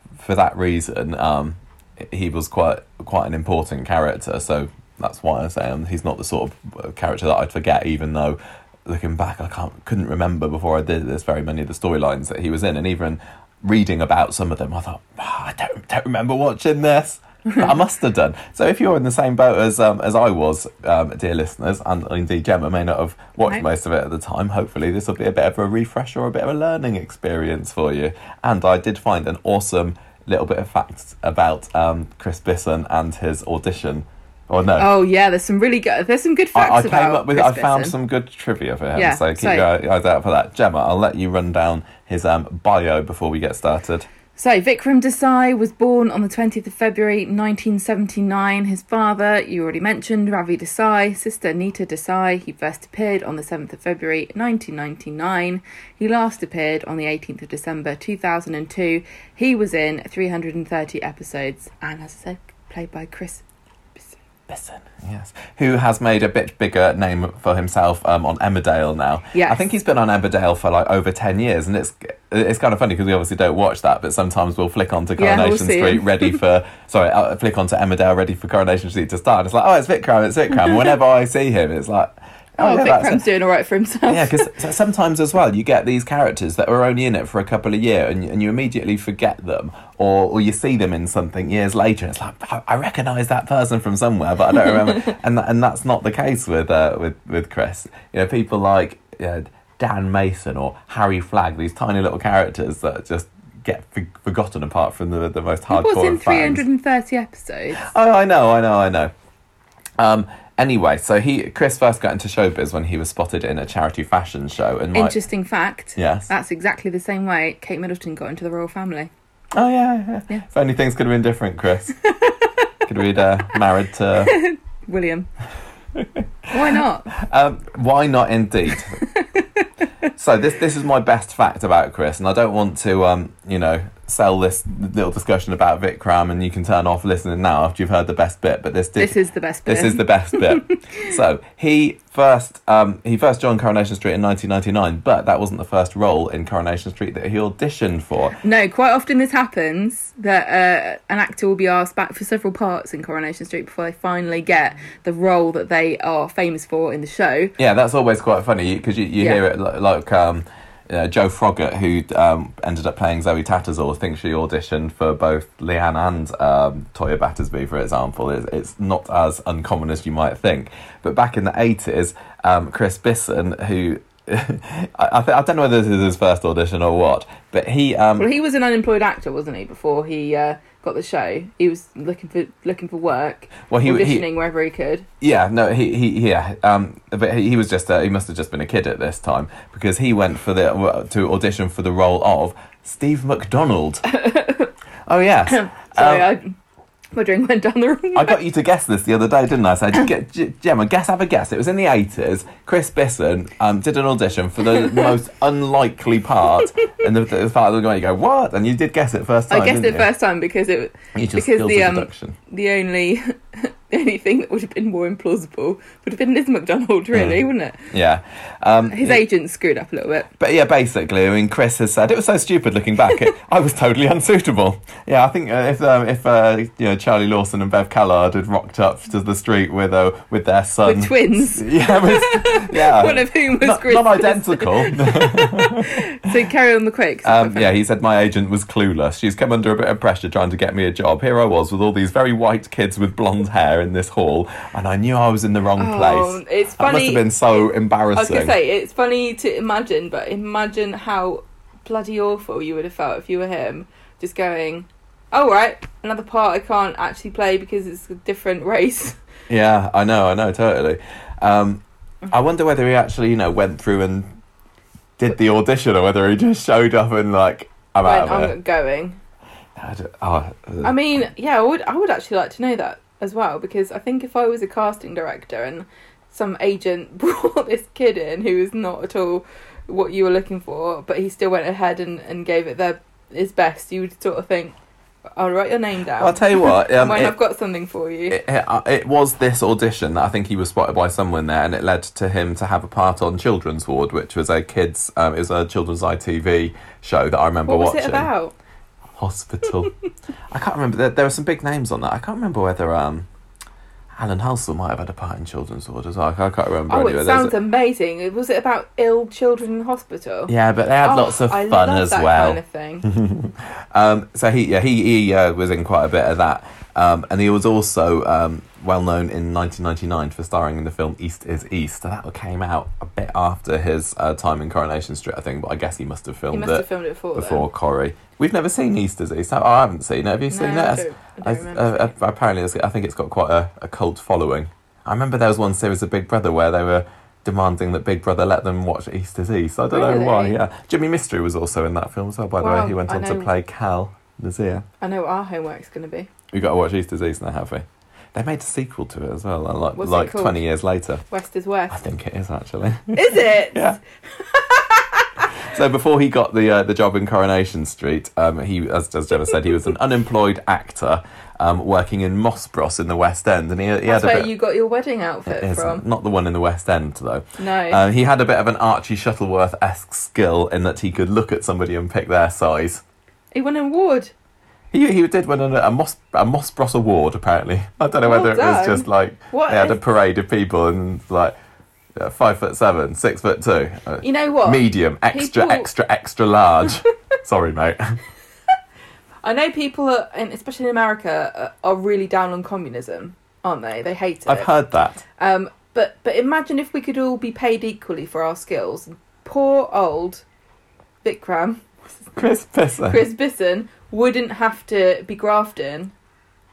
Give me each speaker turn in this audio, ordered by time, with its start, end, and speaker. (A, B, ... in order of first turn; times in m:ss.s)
0:00.2-0:34.9 A
0:17.4-0:17.7 B
0:34.8-0:37.9 B
0:36.5-0:44.1 A
0:38.9-0:39.7 B
0:44.4-1:03.4 B
1:04.5-1:23.2 A
1:09.3-1:09.6 B
1:15.2-1:16.4 B
1:22.6-1:24.5 B
1:24.1-1:46.6 A
1:45.7-1:47.9 B
1:47.8-1:49.1 A
1:50.0-1:55.2 A
1:54.9-1:59.1 B
1:56.0-1:56.3 A
1:59.5-2:02.0 A
2:02.1-2:02.6 B
2:02.8-2:04.4 A
2:04.2-2:05.3 B
2:06.0-2:06.2 A
2:06.5-2:07.1 B
2:07.1-2:09.0 A
2:09.0-2:09.8 B
2:10.2-2:28.4 A
2:19.0-2:21.0 B
2:28.4-2:37.5 B
2:37.6-2:58.3 A
2:58.2-3:05.1 B
3:03.7-3:04.3 A
3:05.2-3:14.0 A
3:14.0-3:14.7 B
3:15.1-3:16.3 A
3:15.5-3:16.5 B
3:17.1-3:18.4 B
3:18.2-3:30.1 A
3:24.7-3:25.1 B
3:29.5-3:37.9 B
3:31.1-3:32.4 A
3:37.1-3:39.2 A
3:38.9-3:40.3 B
3:40.4-3:55.9 A
3:50.8-3:57.7 B
3:57.2-4:08.5 A
4:05.8-4:07.3 B
4:08.2-4:19.2 B
4:19.5-4:24.2 A
4:25.2-4:28.5 A
4:28.0-4:29.2 B
4:29.8-4:30.9 A
4:30.8-4:44.8 B
4:45.4-4:48.4 B
4:46.2-4:47.4 A
4:48.3-4:58.3 A
4:57.6-4:58.5 B
4:59.2-4:59.9 A
5:00.5-5:03.3 A
5:04.1-5:07.5 A
5:06.9-5:13.0 B
5:10.5-5:44.9 A
5:26.5-5:27.6 B
5:30.5-5:32.1 B
5:39.9-5:40.6 B
5:42.6-5:43.5 B
5:45.0-5:46.3 B
5:46.5-5:51.2 A
5:49.9-5:50.6 B
5:51.3-5:52.0 B
5:51.9-5:54.0 A
5:53.1-5:55.5 B
5:55.5-6:04.5 A
6:04.0-6:06.0 B
6:05.4-6:13.0 A
6:07.6-6:08.0 B
6:13.5-6:14.3 B
6:14.9-6:21.5 A
6:18.2-6:20.0 B
6:22.2-6:28.2 A
6:24.2-6:25.9 B
6:29.4-6:34.7 B
6:34.4-6:35.2 A
6:35.4-6:40.4 B
6:41.2-6:42.3 B
6:42.4-6:43.2 A
6:43.0-6:46.1 B